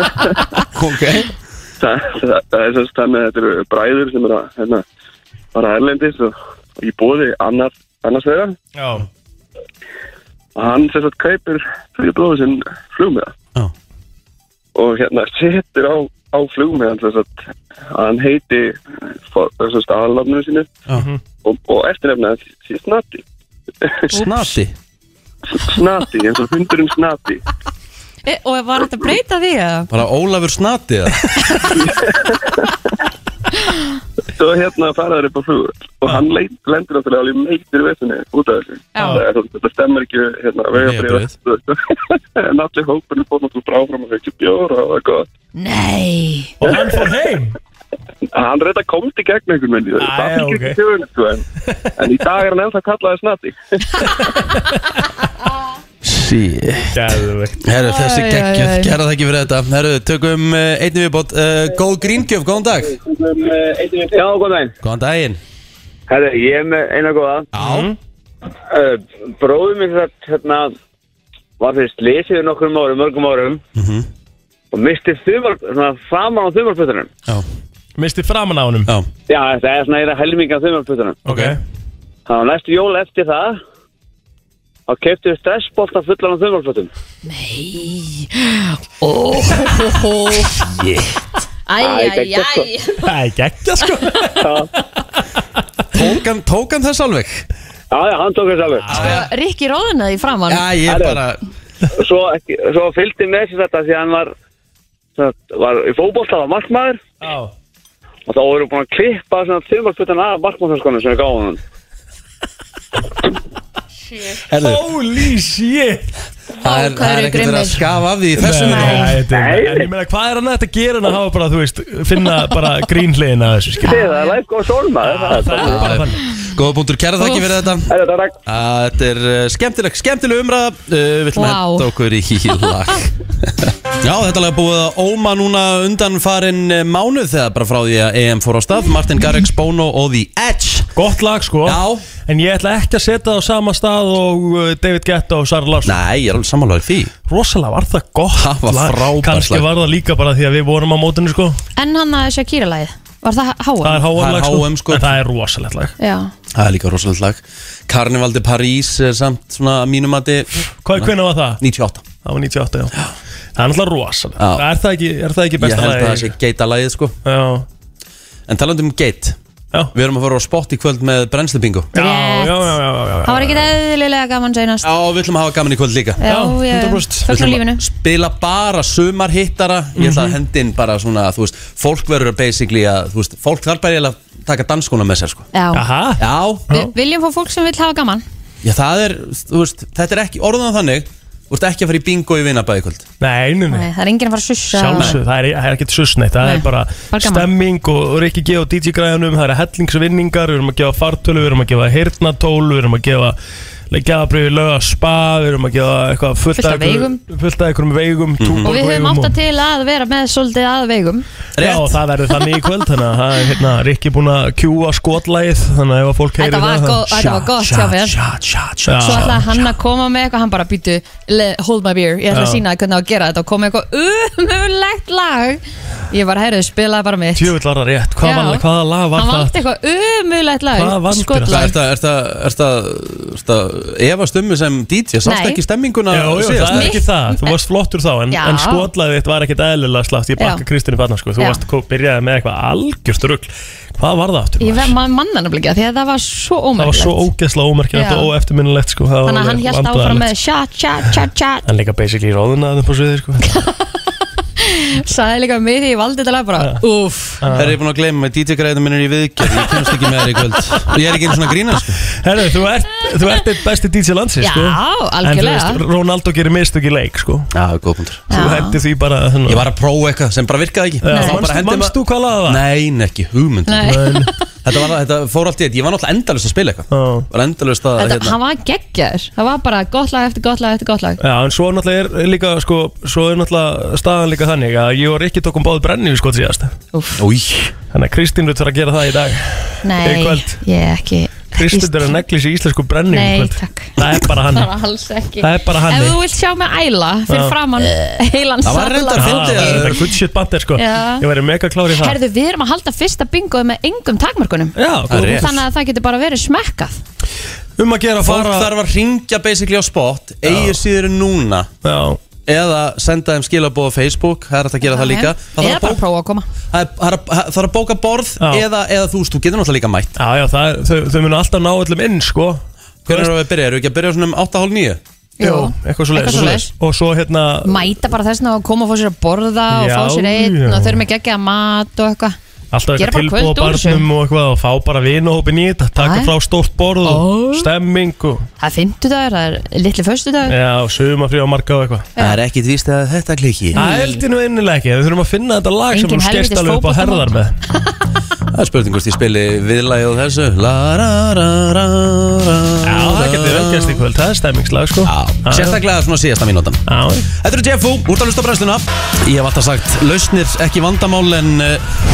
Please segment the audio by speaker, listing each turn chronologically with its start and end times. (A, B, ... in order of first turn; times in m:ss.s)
0:00.7-0:01.3 A
0:01.8-0:04.8 B
0:05.6-0:08.6 B
0:08.8-0:09.1 C
0:10.6-0:13.4 B
0:14.8-0:17.3 B
0:17.9-0:20.8 B
0:20.9-0:21.2 C
0:21.4-0:23.2 B
0:23.8-0:24.1 B
0:24.1-0:24.7 A
0:24.1-0:24.5 D
0:25.6-0:27.4 B
0:28.2-0:29.9 D
0:29.9-0:31.2 A
0:31.8-0:32.6 B
0:34.4-0:41.8 B
0:39.0-0:39.2 D
0:39.0-0:39.2 C
0:40.8-0:41.3 A
0:42.4-0:45.3 B
0:45.6-0:46.7 D
0:46.6-0:47.6 C
0:48.3-0:51.4 B
0:50.0-0:50.8 C
0:52.0-0:53.8 B
0:54.2-0:54.8 C
0:56.0-0:57.0 A
0:56.9-0:57.6 C
0:57.6-1:03.0 A
0:57.8-0:59.0 D
1:04.1-1:04.8 E
1:04.8-1:05.4 A
1:06.1-1:07.5 E
1:07.5-1:07.9 A
1:07.6-1:08.0 C
1:08.7-1:10.8 E
1:11.6-1:13.6 E
1:13.8-1:14.1 A
1:14.7-1:17.1 E
1:18.0-1:18.9 C
1:19.3-1:21.2 E
1:21.2-1:21.6 C
1:21.3-1:21.6 A
1:22.3-1:23.6 E
1:24.9-1:26.9 E
1:27.3-1:30.6 D
1:31.7-1:33.1 D
1:31.8-1:32.7 E
1:33.0-1:34.4 C
1:34.4-1:34.7 E
1:35.9-1:37.4 A
1:37.9-1:38.9 E
1:38.9-1:39.3 A
1:38.9-1:40.7 D
1:40.5-1:41.4 A
1:40.9-1:41.2 E
1:41.9-1:44.3 E
1:45.2-1:47.0 E
1:47.2-1:47.5 C
1:48.3-1:51.6 E
1:54.5-1:54.8 A
1:54.5-1:56.1 C
1:56.6-1:59.1 A
1:56.6-1:57.8 D
1:58.4-2:04.0 C
1:58.6-1:59.2 D
1:59.3-1:59.9 E
2:03.8-2:04.4 D
2:03.8-2:06.0 E
2:05.0-2:06.2 C
2:05.6-2:20.9 A
2:07.2-2:07.5 D
2:07.9-2:08.3 E
2:11.4-2:11.9 D
2:21.0-2:26.0 C
2:21.6-2:22.0 A
2:25.8-2:27.1 A
2:27.3-2:31.6 C
2:28.4-2:29.7 A
2:31.8-2:34.1 D
2:33.8-2:36.0 C
2:34.1-2:35.1 A
2:36.0-2:36.3 D
2:36.6-2:42.0 A
2:40.8-2:41.6 C
2:42.2-2:42.9 C
2:43.6-2:46.4 C
2:44.4-2:44.7 A
2:45.6-2:47.1 A
2:47.2-2:47.7 C
2:48.5-2:49.4 A
2:49.9-2:51.9 A
2:52.0-2:54.9 D
2:52.0-2:53.7 C
2:54.8-2:56.2 A
2:56.2-2:57.8 D
2:56.3-2:57.3 C
2:57.3-3:05.5 A
3:00.0-3:00.4 C
3:05.5-3:05.8 D
3:05.7-3:06.9 C
3:06.2-3:06.7 A
3:06.7-3:08.2 D
3:08.6-3:13.0 A
3:13.2-3:13.9 C
3:13.7-3:15.2 D
3:14.7-3:23.4 C
3:16.4-3:17.5 D
3:23.9-3:29.4 C
3:26.6-3:27.2 D
3:28.4-3:28.7 A
3:28.6-3:31.3 D
3:31.6-3:32.0 A
3:31.6-3:37.3 C
3:36.4-3:38.2 D
3:37.2-3:39.2 A
3:38.8-3:39.5 C
3:39.0-3:47.6 D
3:42.3-3:42.6 C
3:47.4-3:49.5 C
3:48.2-3:51.7 D
3:50.7-3:51.7 C
3:51.5-3:57.0 A
3:55.2-3:55.6 D
3:56.1-4:05.0 C
3:56.7-3:57.6 D
3:58.3-3:58.9 D
4:04.6-4:07.3 D
4:06.8-4:10.3 C
4:07.9-4:08.3 D
4:09.2-4:11.6 D
4:11.7-4:13.6 C
4:13.5-4:13.8 D
4:14.6-4:17.4 D
4:16.6-4:16.8 C
4:17.4-4:17.8 C
4:17.5-4:22.0 A
4:22.1-4:27.5 C
4:24.4-4:25.8 D
4:27.5-4:28.2 A
4:28.3-4:29.7 C
4:28.3-4:28.8 D
4:29.5-4:34.0 A
4:31.0-4:32.6 C
4:31.1-4:31.4 D
4:33.7-4:34.4 D
4:33.8-4:34.3 C
4:34.6-4:38.4 A
4:36.9-4:37.3 C
4:38.0-4:41.2 D
4:41.2-4:46.8 C
4:46.9-4:47.2 D
4:47.2-4:47.7 A
4:47.9-4:50.6 C
4:49.8-4:52.2 D
4:51.5-4:54.7 C
4:53.1-5:00.1 D
4:55.4-4:56.2 C
4:57.3-4:57.6 C
4:58.6-5:00.0 A
4:59.2-5:02.2 C
5:00.8-5:01.3 D
5:01.9-5:07.0 D
5:04.8-5:05.6 C
5:05.1-5:05.6 A
5:07.8-5:08.7 C
5:08.2-5:11.7 A
5:10.5-5:10.8 C
5:11.8-5:12.2 C
5:12.5-5:16.0 A
5:14.8-5:16.5 D
5:16.7-5:20.2 A
5:18.4-5:18.6 C
5:20.2-5:23.3 C
5:23.0-5:25.0 A
5:25.4-5:26.7 D
5:25.4-5:27.9 C
5:26.3-5:26.6 A
5:27.6-5:32.4 D
5:29.7-5:31.0 C
5:32.7-5:38.5 C
5:33.0-5:34.0 D
5:36.0-5:36.3 D
5:37.0-5:37.7 D
5:38.6-5:40.6 D
5:40.5-5:42.1 C
5:42.2-5:43.8 A
5:43.7-5:44.2 D
5:43.8-5:47.6 C
5:45.9-5:47.3 D
5:48.5-5:54.0 A
5:52.8-5:55.8 C
5:55.0-6:02.0 A
5:56.9-5:57.3 C